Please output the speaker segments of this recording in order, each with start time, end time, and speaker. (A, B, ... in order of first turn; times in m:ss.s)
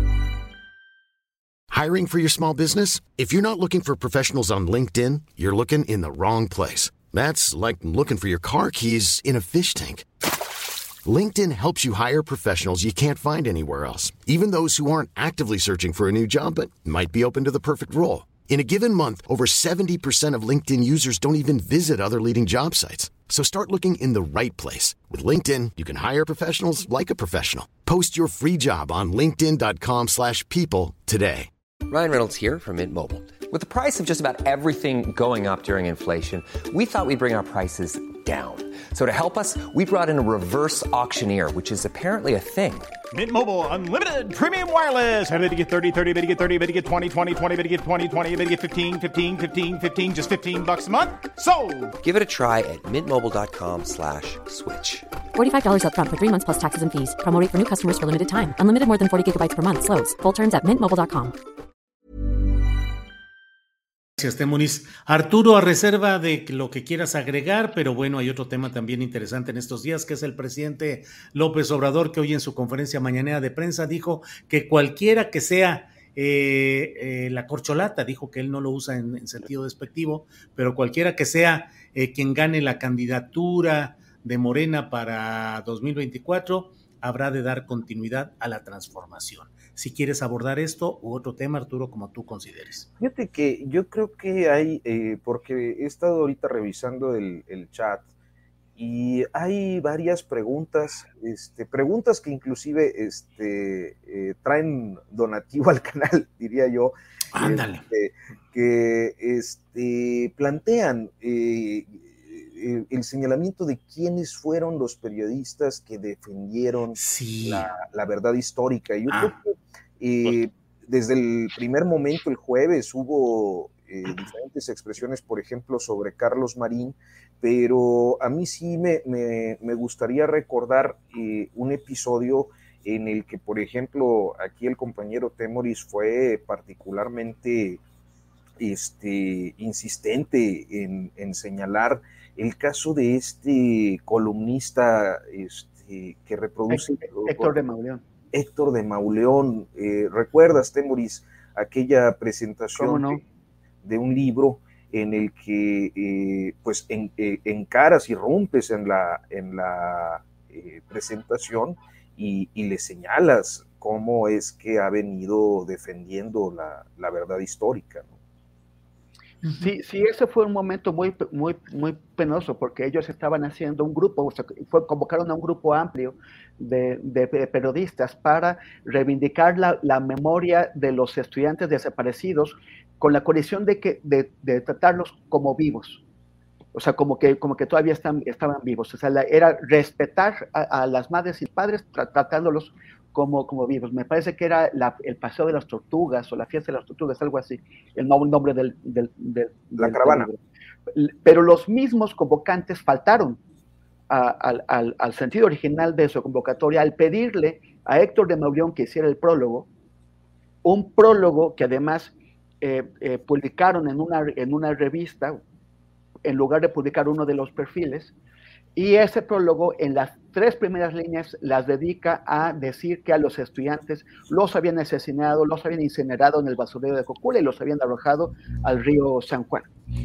0:01.7-0:10.0 A
0:11.0-0:31.5 A
0:31.9-0:42.9 B
0:43.1-0:51.9 C
0:52.0-0:55.1 B
0:55.4-1:01.4 D
1:04.2-1:32.9 E
1:33.0-1:38.1 F
1:38.8-2:17.8 F
1:47.3-1:47.9 E
1:57.0-1:57.7 E
2:18.6-2:27.6 F
2:26.7-2:28.0 G
2:28.3-2:33.2 F
2:32.8-2:33.2 G
2:33.8-2:48.1 F
2:49.4-3:06.0 G
3:06.7-3:20.4 G
3:19.8-3:20.3 F
3:21.0-3:23.4 G
3:24.1-3:29.7 G
3:30.6-3:35.4 G
3:36.2-3:38.1 G
3:38.8-3:49.7 G